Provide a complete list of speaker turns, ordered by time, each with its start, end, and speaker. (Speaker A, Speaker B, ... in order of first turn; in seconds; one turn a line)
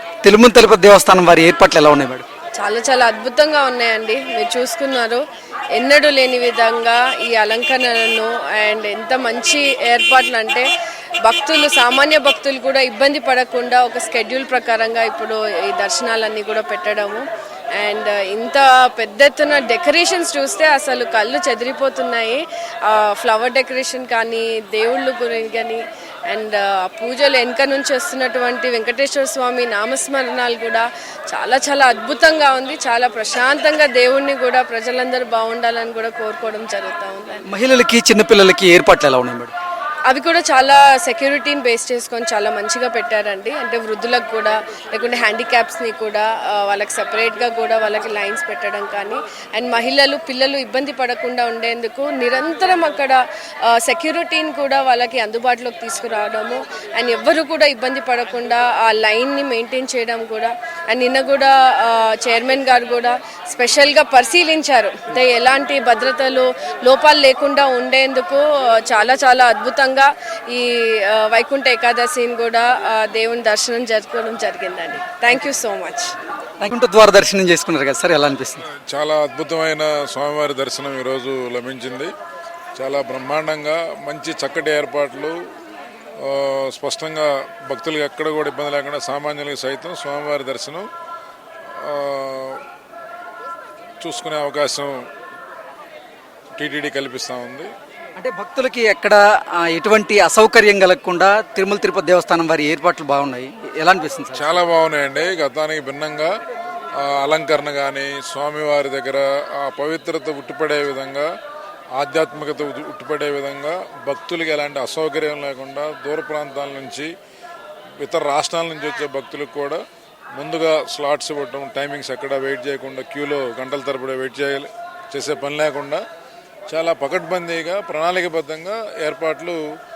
Speaker A: 0.2-2.2
Speaker B: 2.6-5.2
Speaker B: 5.8-10.6
Speaker B: 11.2-17.2
Speaker B: 17.8-37.5
Speaker A: 37.5-39.5
Speaker B: 40.1-76.1
Speaker A: 76.6-78.7
Speaker C: 78.8-82.1
Speaker C: 82.8-85.4
Speaker C: 86.2-90.9
Speaker C: 91.8-92.6
Speaker C: 94.0-94.9
Speaker C: 96.5-97.7
Speaker A: 98.2-104.6
Speaker C: 104.3-106.3
Speaker C: 107.0-111.3
Speaker C: 112.0-117.1
Speaker C: 118.0-119.8
Speaker C: 120.3-126.0
Speaker C: 126.7-129.6